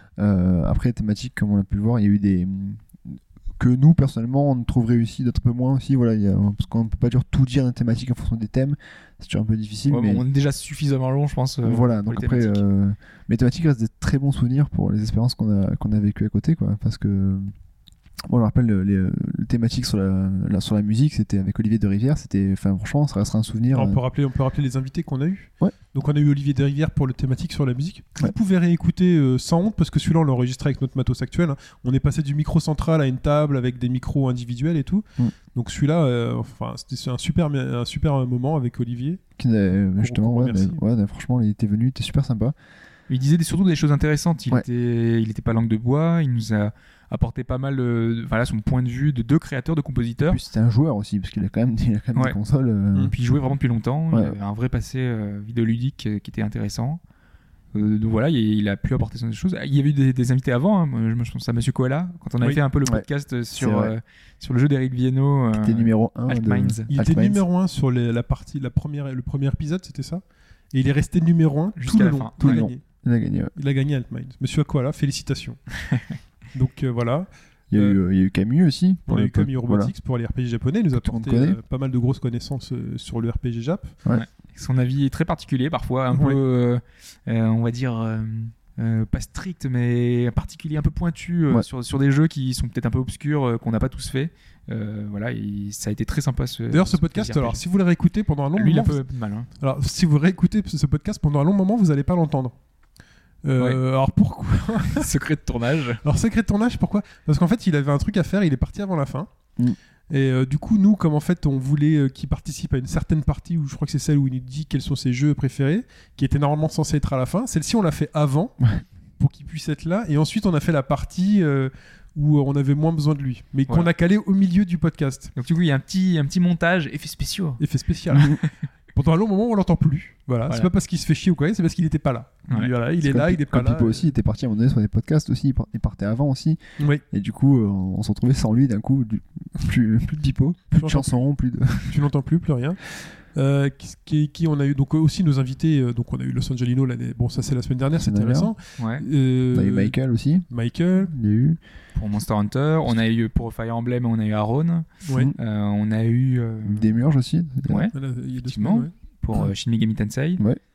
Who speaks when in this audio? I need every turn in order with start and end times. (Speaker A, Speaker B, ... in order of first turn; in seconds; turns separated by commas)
Speaker A: 0.2-10.2, Speaker B: 9.9-12.6, Speaker A: 11.6-17.5, Speaker A: 18.3-24.0, Speaker C: 23.7-39.2, Speaker A: 39.4-42.5, Speaker C: 40.0-40.8, Speaker B: 43.1-50.4, Speaker A: 50.2-53.1, Speaker B: 53.1-57.0, Speaker B: 57.7-66.9, Speaker A: 62.8-63.9, Speaker A: 65.5-67.4, Speaker C: 66.9-72.8, Speaker B: 71.8-72.6, Speaker A: 72.4-73.5, Speaker C: 73.5-75.6, Speaker B: 75.9-76.1, Speaker C: 76.5-78.0, Speaker A: 77.7-79.9, Speaker C: 79.1-84.0, Speaker A: 80.9-81.6, Speaker B: 84.1-97.6, Speaker C: 86.1-86.4, Speaker C: 96.7-99.0, Speaker B: 98.5-99.5, Speaker C: 99.6-102.5, Speaker C: 103.4-105.1, Speaker B: 104.9-106.0, Speaker C: 106.0-109.3, Speaker C: 110.1-118.6, Speaker C: 119.2-125.3, Speaker B: 125.3-127.6, Speaker C: 127.6-128.4, Speaker C: 128.9-134.1, Speaker A: 133.0-142.1, Speaker C: 136.8-137.0, Speaker C: 140.7-141.2, Speaker C: 141.8-149.9, Speaker A: 148.0-148.5, Speaker B: 148.8-149.0, Speaker A: 149.5-150.5, Speaker C: 150.5-151.1, Speaker A: 151.0-151.6, Speaker B: 151.9-156.9, Speaker C: 155.1-155.3, Speaker A: 156.6-157.9, Speaker B: 157.7-160.4, Speaker C: 157.9-158.9